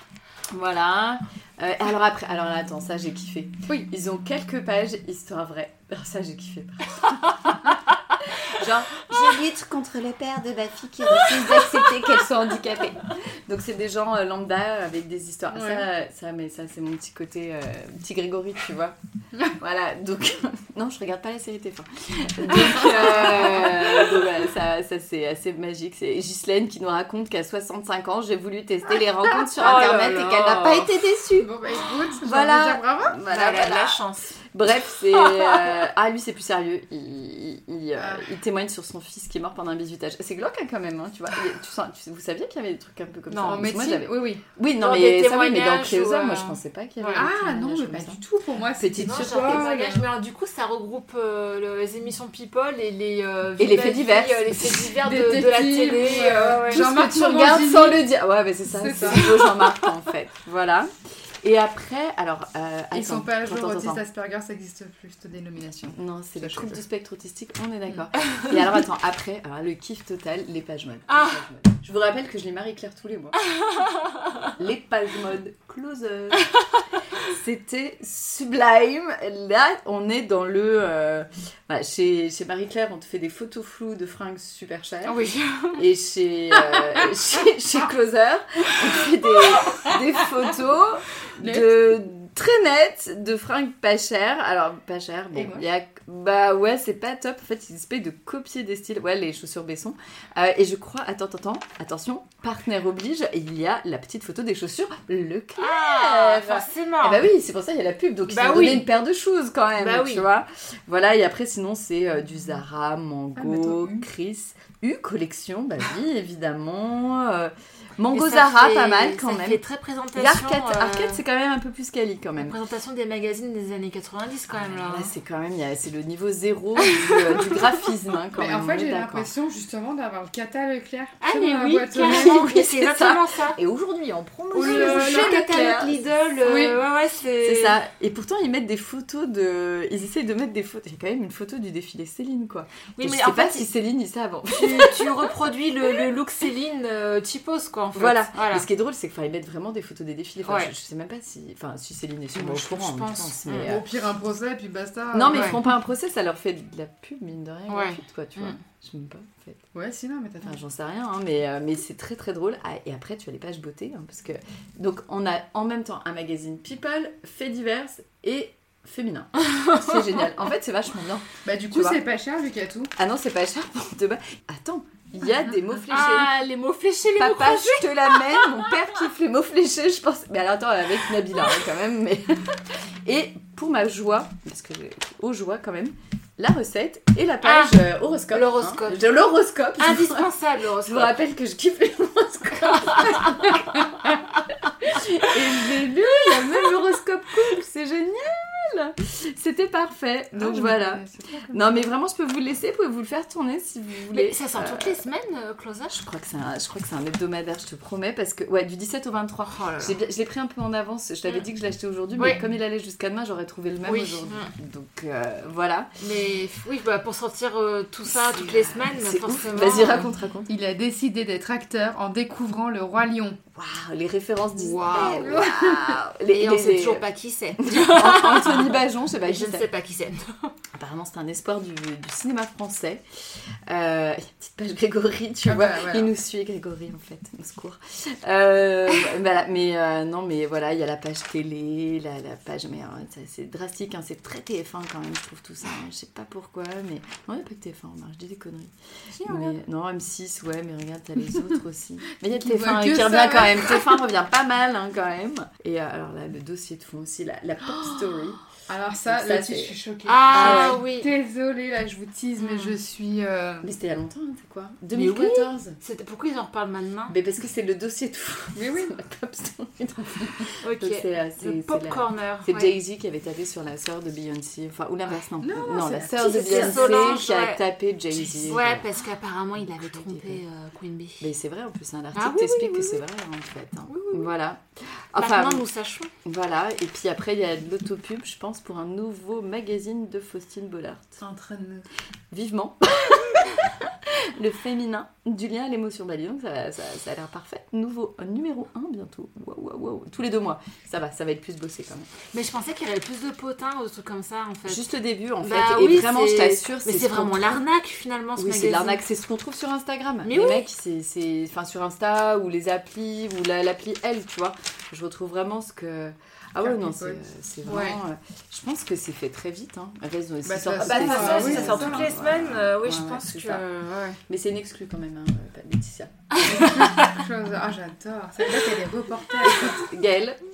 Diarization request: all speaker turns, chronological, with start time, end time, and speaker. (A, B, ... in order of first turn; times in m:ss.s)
0:00.5-0:19.0 A
0:15.5-0:15.8 B
0:19.5-0:31.6 A
0:22.7-0:23.8 B
0:29.4-0:30.1 B
0:29.6-0:30.9 C
0:31.3-0:33.2 B
0:32.2-0:34.0 A
0:33.2-0:35.8 C
0:34.5-0:48.2 A
0:38.0-0:38.3 B
0:43.3-0:43.7 C
0:43.4-0:44.4 B
0:44.8-0:47.3 C
0:47.1-0:50.1 B
0:48.8-0:49.7 A
0:48.8-0:57.0 C
0:53.6-0:54.5 A
0:55.0-0:58.1 B
0:56.7-1:00.9 A
0:58.7-0:59.7 B
1:01.4-1:04.0 A
1:02.9-1:06.8 B
1:05.9-1:13.4 A
1:11.1-1:11.3 C
1:14.6-1:16.5 A
1:17.2-1:59.6 A
1:25.0-1:25.8 B
1:26.7-1:27.0 B
1:31.4-1:31.7 B
1:35.3-1:35.6 B
1:45.6-1:47.2 C
1:48.3-1:48.9 C
1:49.8-1:50.3 C
1:53.4-1:54.0 B
1:58.1-2:01.2 C
2:00.1-2:02.6 A
2:02.4-2:05.1 C
2:04.5-2:09.3 A
2:06.8-2:07.6 C
2:08.3-2:12.4 B
2:11.2-2:13.6 C
2:12.0-2:16.0 A
2:14.5-2:15.5 B
2:14.6-2:17.8 C
2:16.4-2:16.8 B
2:17.4-2:25.3 A
2:23.0-2:23.6 C
2:24.5-2:28.6 C
2:27.9-2:33.8 A
2:30.4-2:30.7 C
2:32.3-2:33.7 C
2:33.6-2:35.6 B
2:35.1-2:39.6 A
2:35.3-2:35.6 C
2:37.7-2:38.6 C
2:39.7-2:40.6 B
2:40.4-2:52.0 A
2:49.6-2:49.9 C
2:51.4-2:52.9 B
2:53.0-2:56.4 A
2:55.8-2:58.7 C
2:57.2-3:25.0 A
3:07.4-3:07.8 C
3:08.3-3:09.1 C
3:09.8-3:11.2 C
3:12.8-3:13.6 C
3:20.3-3:21.9 B
3:24.1-3:26.0 C
3:25.9-3:35.9 A
3:29.4-3:30.0 C
3:32.2-3:32.4 C
3:33.8-3:34.5 C
3:36.0-3:40.1 C
3:38.1-3:40.5 A
3:40.5-3:43.4 B
3:43.5-3:47.0 A
3:44.6-3:45.4 C
3:44.9-3:46.0 B
3:46.3-3:50.5 C
3:47.6-3:49.7 A
3:50.7-3:53.0 A
3:53.7-4:18.4 A
3:55.4-3:56.1 B
4:09.1-4:09.6 B
4:12.4-4:14.0 B
4:18.7-4:23.7 B
4:19.1-4:19.7 A
4:20.0-4:21.1 C
4:20.3-4:20.8 A
4:22.4-4:22.7 C
4:23.6-4:25.8 A
4:24.9-4:27.2 C
4:27.1-4:38.9 A
4:28.5-4:28.9 B
4:30.6-4:32.7 C
4:35.4-4:37.2 B
4:36.2-4:37.6 C
4:38.2-4:38.6 B
4:38.4-4:41.3 C
4:39.6-4:40.4 A
4:41.2-4:45.6 A
4:42.1-4:43.0 C
4:43.9-4:44.3 B
4:45.2-4:46.1 C
4:46.2-4:51.2 A
4:51.2-4:51.9 B
4:52.3-5:02.1 A
5:02.3-5:04.8 C
5:04.7-5:07.6 A
5:05.4-5:09.0 C
5:08.4-5:23.6 A
5:10.2-5:10.7 C
5:16.6-5:17.2 B
5:17.6-5:18.0 C
5:20.4-5:22.1 B
5:20.8-5:24.2 C
5:24.3-5:26.4 A
5:26.3-5:27.2 C
5:26.4-5:29.8 B
5:29.4-5:30.4 A